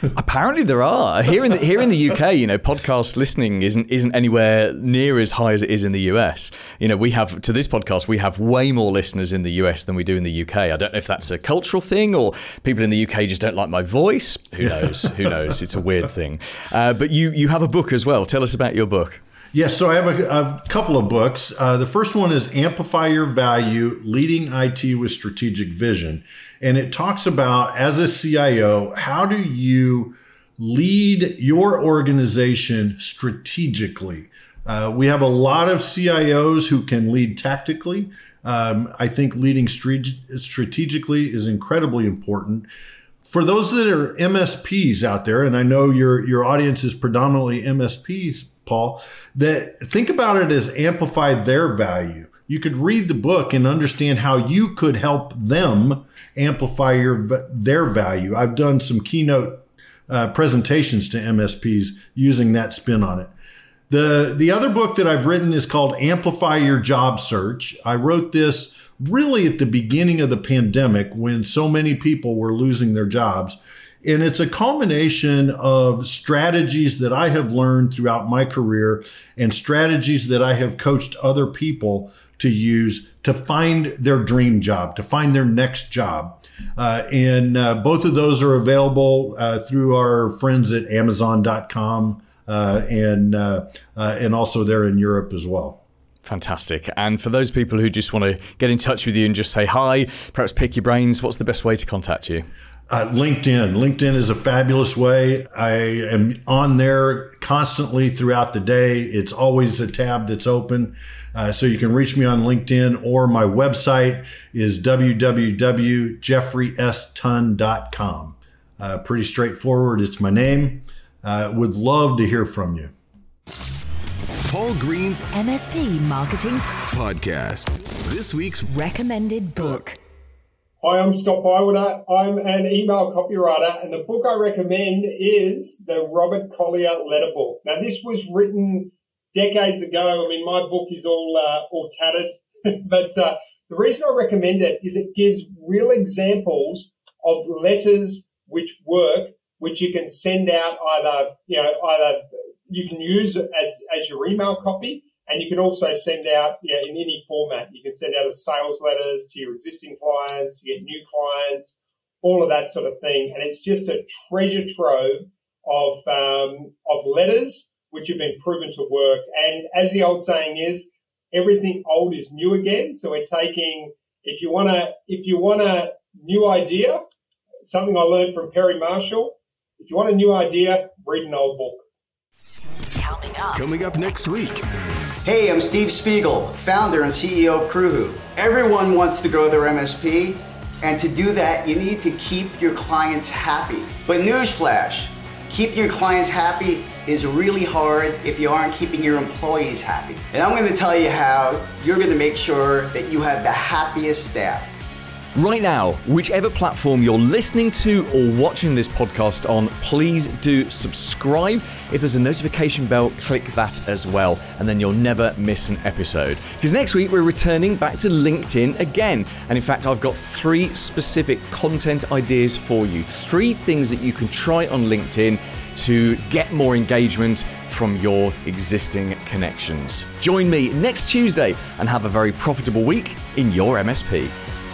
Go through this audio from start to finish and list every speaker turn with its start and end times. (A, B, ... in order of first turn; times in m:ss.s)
0:00.1-0:19.2 A
0:19.5-0:42.7 B
0:43.2-1:03.3 B
1:03.9-1:35.8 B
1:36.2-1:42.5 A
1:42.9-2:02.9 B
2:04.4-2:05.2 C
2:05.3-2:06.6 D
2:06.8-2:08.7 C
2:08.7-2:10.0 D
2:10.8-2:57.0 E
2:57.6-3:01.8 E
3:03.0-3:03.6 D
3:03.5-3:04.7 C
3:05.2-3:24.8 F
3:25.4-3:54.4 A